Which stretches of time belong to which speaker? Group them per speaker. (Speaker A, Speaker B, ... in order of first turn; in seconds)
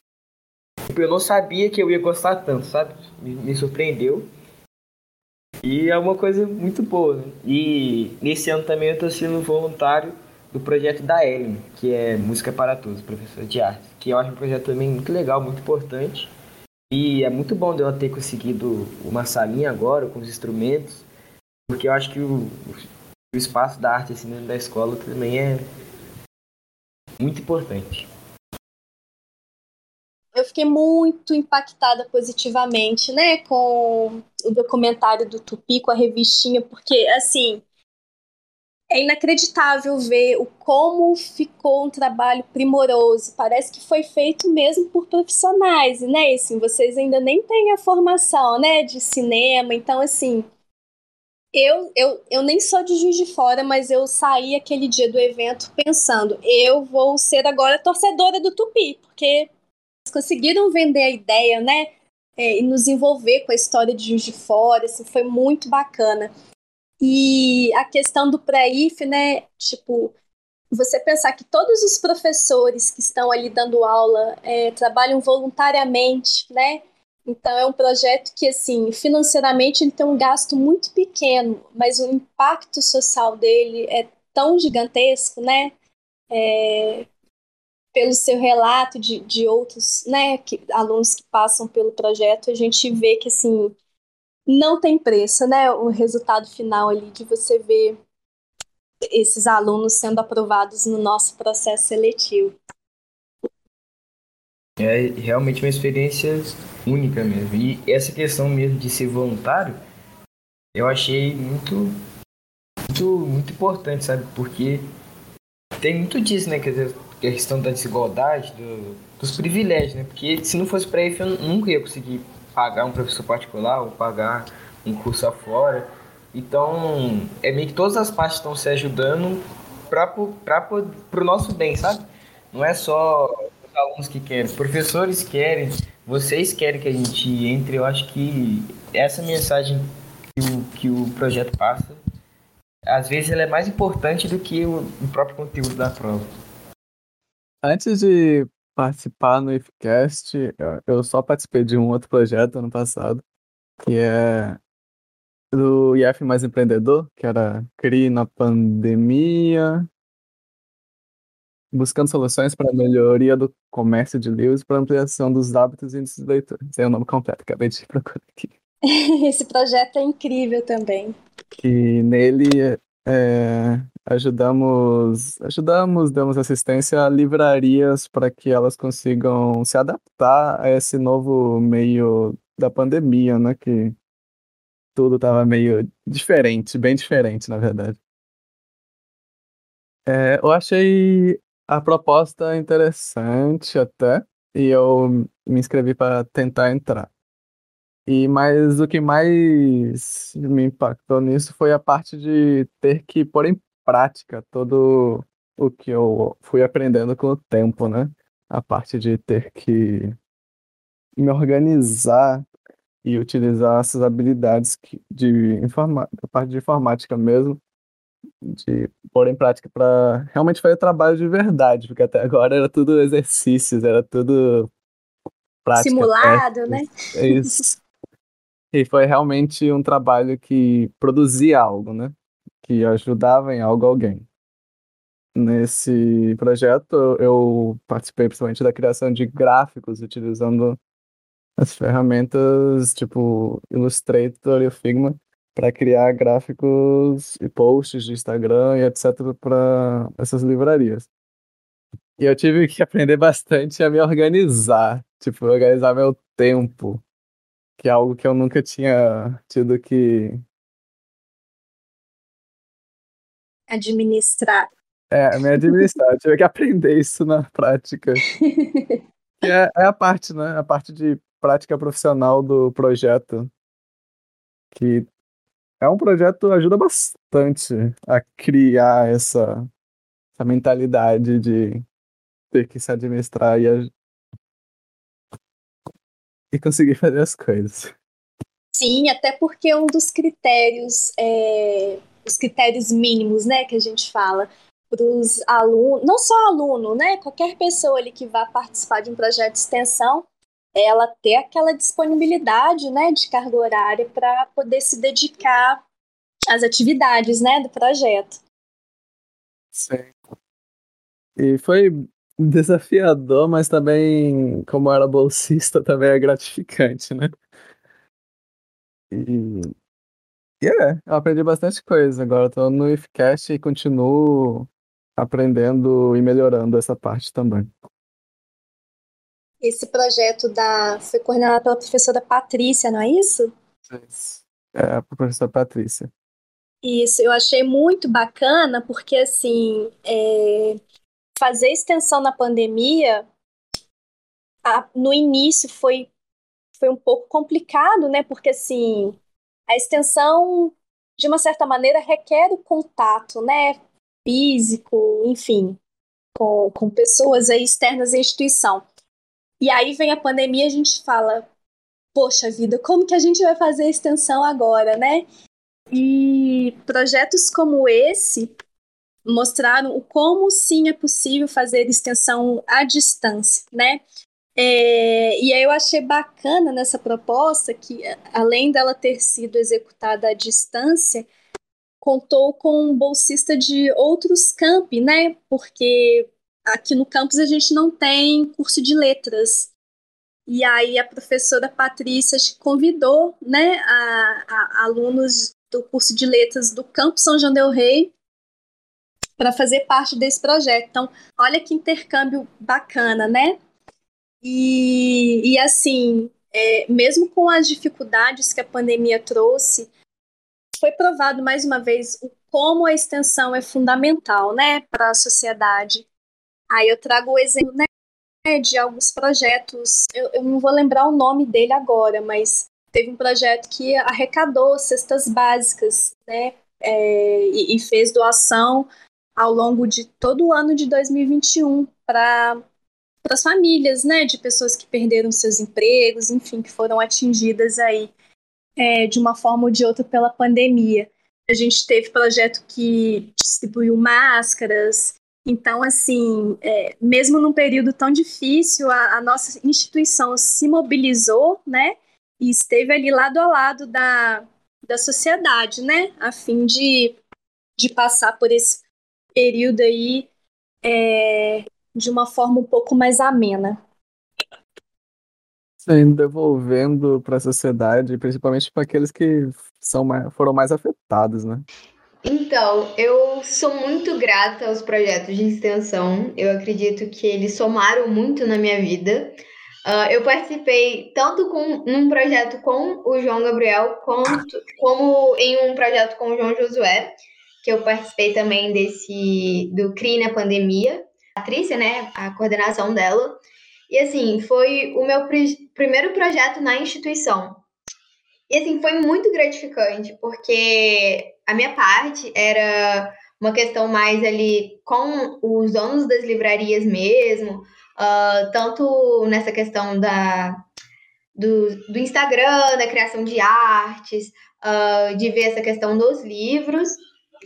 Speaker A: 0.9-4.3, 5.6-16.3, 16.9-21.1, 21.7-25.6, 27.2-28.1, 104.8-109.8, 110.7-111.9, 112.9-114.8, 115.8-142.0, 142.9-146.2
Speaker B: 30.3-37.6, 38.9-50.5, 51.5-59.5, 60.1-66.3, 67.0-70.1, 70.7-85.7, 86.3-87.1, 87.9-93.8, 94.5-98.0, 99.1-102.5, 168.9-171.1, 225.8-227.5, 263.7-264.7, 265.4-265.9, 268.4-269.0, 288.7-305.8, 306.5-308.4, 329.6-333.5, 336.8-340.8, 341.4-343.2, 344.6-346.1, 346.8-349.1, 349.7-355.8, 356.3-358.8, 359.6-361.4, 362.1-365.2, 365.9-368.5, 369.2-374.0, 374.6-381.3, 382.0-389.7, 390.5-398.1, 399.4-403.6, 404.4-409.9, 410.8-416.1, 416.7-417.9, 418.4-432.6, 433.2-438.1, 438.8-457.2, 457.8-458.8, 459.4-460.3, 460.8-463.8
Speaker C: 147.6-153.2, 153.8-154.6, 155.5-159.9, 161.7-168.5, 171.6-183.9, 184.9-188.0, 190.1-197.1, 198.1-210.1, 211.2-212.4, 213.0-217.6, 218.4-224.7, 225.6-227.8, 228.7-234.2, 235.3-240.8, 241.6-251.1, 252.2-257.0, 257.8-260.4, 265.1-268.2, 269.4-273.5, 274.7-275.1, 275.8-279.7, 280.4-281.8, 282.5-283.9, 286.5-287.9, 309.7-310.1, 311.4-317.3, 319.1-319.7, 320.6-327.7, 333.9-336.1, 465.8-471.6
Speaker D: 472.2-497.6, 498.5-510.6, 511.3-517.0